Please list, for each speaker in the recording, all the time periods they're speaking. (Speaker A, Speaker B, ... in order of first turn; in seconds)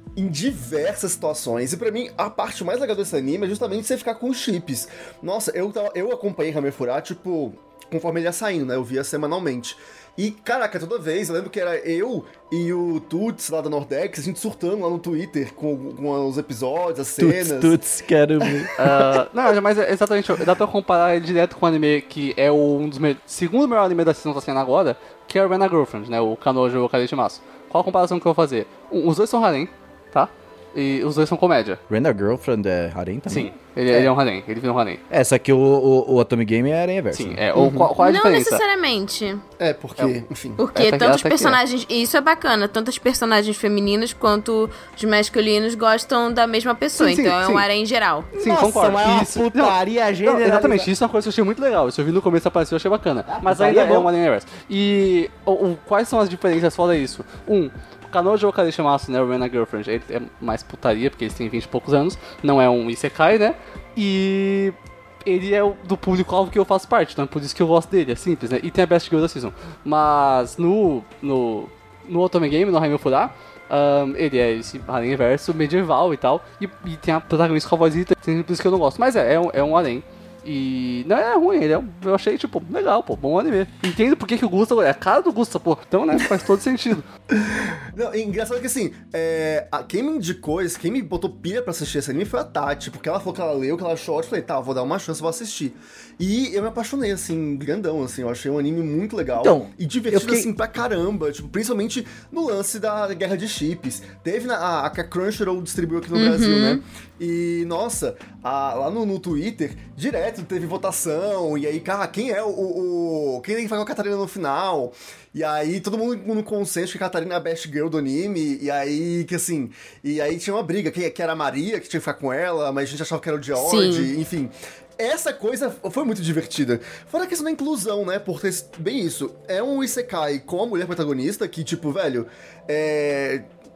Speaker A: 0.2-17.8, 37.5-37.9, 39.6-40.6, 87.3-133.5
Speaker B: 17.2-18.7, 31.9-33.5, 35.1-37.4, 48.3-50.9, 53.3-54.1, 99.4-100.5
Speaker C: 18.8-31.8, 33.3-35.0, 37.1-38.6, 40.8-41.6, 47.0-47.6, 48.4-87.1
Speaker D: 38.0-39.4, 40.6-48.3, 106.2-106.8, 123.6-124.1